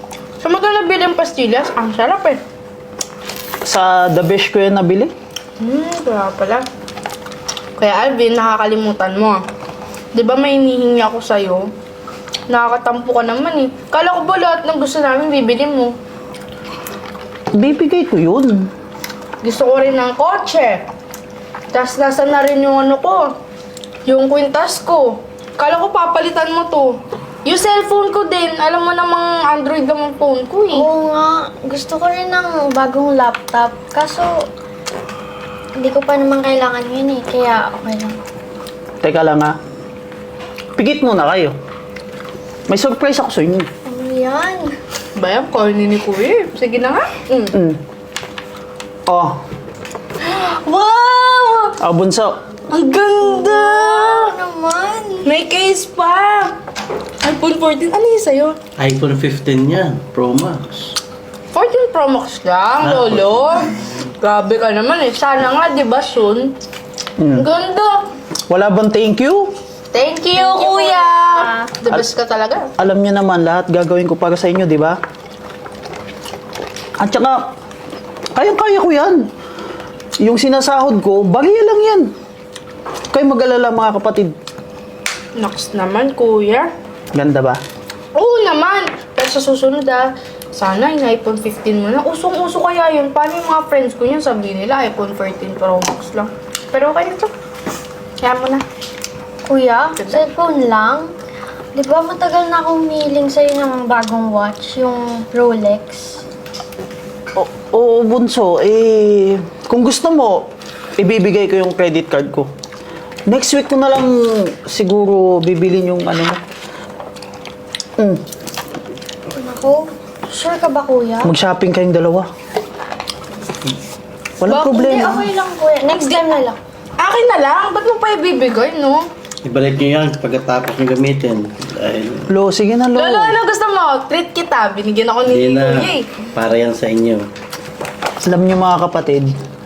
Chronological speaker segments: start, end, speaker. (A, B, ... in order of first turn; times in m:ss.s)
0:00.4-0:02.4 A
0:03.6-0:05.1 B
0:05.6-0:06.6 A
0:07.8-0:09.4 A
0:10.2-0:11.6 A
0:12.5-0:15.9 A
0:17.6-0:18.7 B
0:19.4-0:20.8 A
0:21.7-0:23.3 A
0:24.1-0:30.9 A
0:30.8-0:34.3 C
0:35.8-0:38.2 C
0:39.0-0:39.5 B
0:40.8-0:41.5 B
0:42.7-0:43.7 B
0:43.9-0:44.7 C
0:45.2-0:47.5 A
0:49.1-0:49.4 B
0:50.2-0:51.8 A
0:51.8-0:52.3 B
0:52.7-0:54.4 A
0:53.2-0:55.3 C
0:55.2-0:56.6 A
0:57.2-0:58.6 A
0:58.8-1:01.0 D
1:01.5-1:06.5 A
1:02.8-1:03.5 D
1:07.2-1:07.5 B
1:07.4-1:08.0 A
1:08.5-1:09.5 B
1:09.9-1:12.7 A
1:12.8-1:15.0 B
1:17.0-1:17.4 B
1:18.4-1:19.3 B
1:20.2-1:22.1 B
1:23.1-1:24.3 B
1:25.4-1:26.7 A
1:27.1-1:27.6 B
1:28.2-1:37.3 A
1:38.2-1:38.6 A
1:39.5-1:41.1 C
1:40.0-1:40.3 A
1:41.8-1:46.2 C
1:47.4-1:52.5 B
1:53.3-1:56.4 B
1:59.4-2:01.3 C
2:01.2-2:02.3 B
2:04.4-2:05.3 B
2:04.5-2:04.9 A
2:04.8-2:06.6 C
2:05.8-2:06.4 A
2:07.0-2:09.0 A
2:09.4-2:12.3 D
2:12.3-2:13.4 B
2:13.0-2:16.1 A
2:15.3-2:17.2 D
2:18.2-2:19.3 B